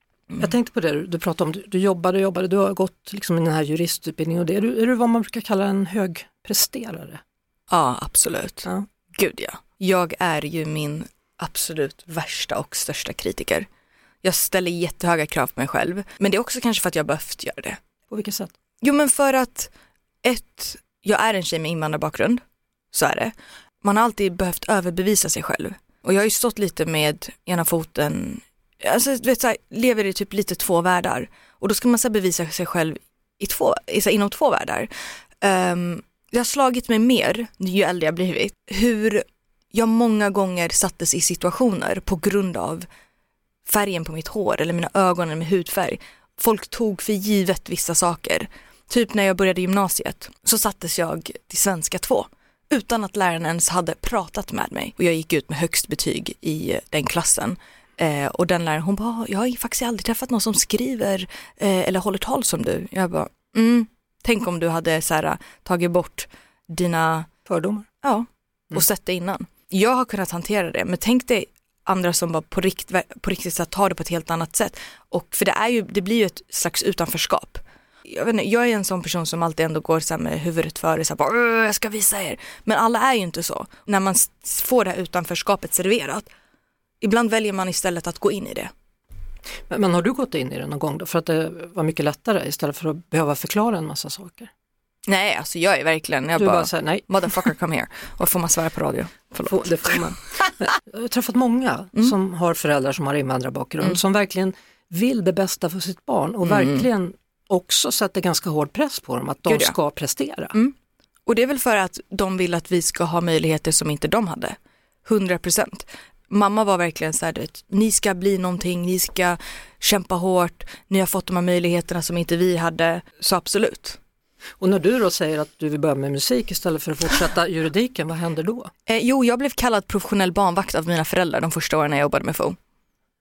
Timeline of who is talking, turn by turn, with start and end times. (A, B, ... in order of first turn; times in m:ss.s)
0:00.4-0:07.2 A
0:07.7-0:13.6 B
0:14.2-0:17.8 B
0:18.1-0:18.5 A
0:18.8-0:19.7 B
0:20.2-0:22.4 B
0:22.9-0:42.9 B
0:43.7-1:07.3 B
1:07.5-1:07.9 A
1:08.0-1:26.3 B
1:27.0-1:28.7 B
1:29.7-1:34.5 A
1:35.1-1:40.1 B
1:36.4-1:37.1 A
1:39.4-1:50.5 A
1:46.4-1:46.9 B
1:49.5-1:49.7 B
1:51.3-2:04.0 B
2:04.6-2:08.7 A
2:08.9-2:12.6 B